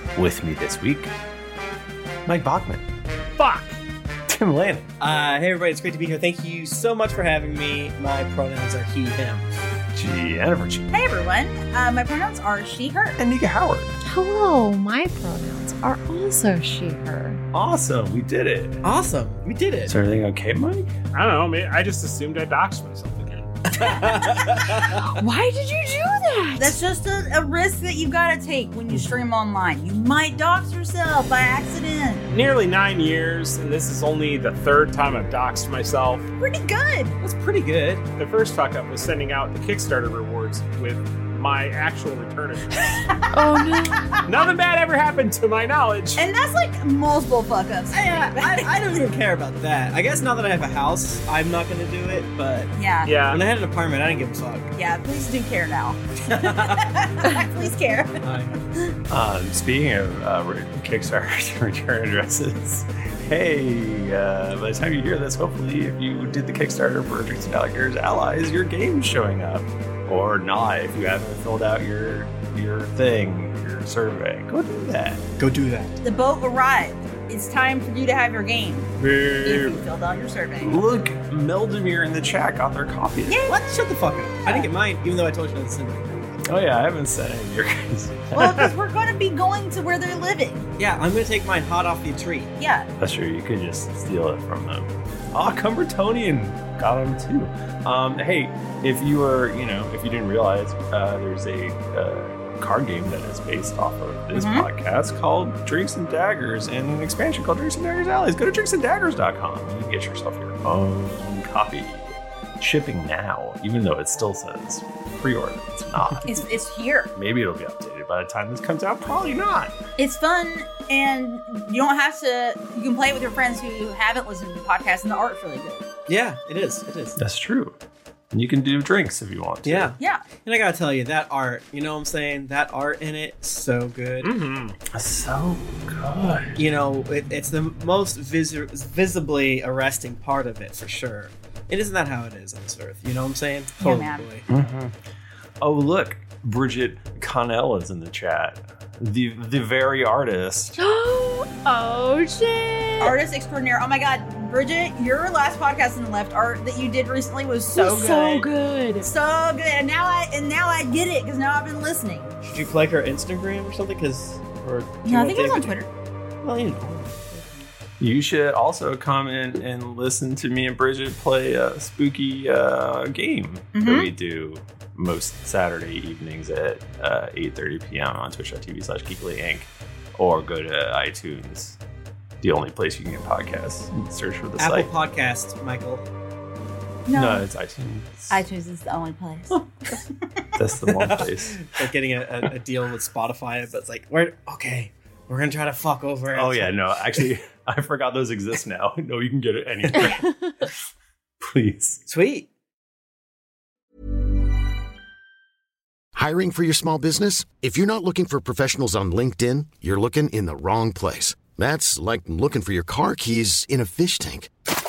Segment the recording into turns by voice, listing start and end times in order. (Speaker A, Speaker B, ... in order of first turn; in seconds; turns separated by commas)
Speaker A: 0.1-1.1, Speaker A: 2.2-2.8, Speaker B: 3.4-3.8, Speaker A: 4.3-4.9, Speaker C: 5.0-9.4, Speaker A: 9.9-10.8, Speaker D: 10.9-13.2, Speaker A: 13.2-13.9, Speaker E: 14.0-17.4, Speaker A: 17.5-18.8, Speaker C: 18.8-19.9, Speaker A: 19.9-20.9, Speaker B: 21.1-23.5, Speaker C: 23.7-25.0, Speaker E: 25.0-26.8, Speaker D: 26.6-32.3, Speaker B: 32.3-36.2, Speaker D: 36.4-37.2, Speaker C: 37.2-38.0, Speaker B: 38.1-43.0, Speaker E: 43.3-44.2, Speaker B: 44.3-46.2, Speaker D: 46.1-48.8, Speaker C: 47.9-52.7, Speaker D: 52.7-53.1, Speaker B: 53.0-53.4, Speaker C: 53.3-54.7, Speaker D: 54.7-58.2, Speaker C: 56.3-56.9, Speaker C: 58.2-58.6, Speaker A: 59.1-75.2, Speaker C: 75.4-76.0, Speaker D: 76.0-80.8, Speaker A: 80.6-83.4, Speaker D: 83.3-83.6, Speaker C: 83.5-86.4, Speaker A: 86.5-88.4, Speaker D: 88.3-90.7, Speaker C: 90.8-92.5, Speaker D: 92.6-92.9, Speaker A: 93.0-116.3, Speaker D: 104.3-104.7, Speaker D: 116.3-117.1, Speaker A: 117.1-119.7, Speaker D: 120.0-125.9, Speaker C: 126.1-127.2, Speaker A: 127.2-127.7, Speaker A: 128.3-129.9, Speaker C: 129.6-134.3, Speaker D: 130.0-130.2, Speaker B: 134.2-134.8, Speaker A: 134.9-136.6, Speaker C: 136.6-144.4, Speaker D: 143.8-144.3, Speaker A: 144.5-144.9, Speaker A: 145.6-150.7, Speaker E: 150.8-153.1, Speaker D: 153.0-158.5, Speaker E: 157.7-159.1, Speaker D: 159.0-162.3, Speaker C: 162.4-165.9, Speaker D: 165.1-165.9, Speaker C: 166.4-167.7, Speaker A: 168.0-181.8, Speaker D: 173.7-174.1, Speaker A: 182.4-184.9, Speaker C: 184.6-186.0, Speaker D: 187.1-187.4, Speaker A: 187.1-188.4, Speaker D: 188.3-189.5, Speaker A: 190.5-191.7, Speaker C: 190.9-196.7, Speaker A: 196.3-200.7, Speaker E: 200.0-200.5, Speaker A: 201.4-202.0, Speaker C: 202.1-202.5, Speaker F: 206.1-214.5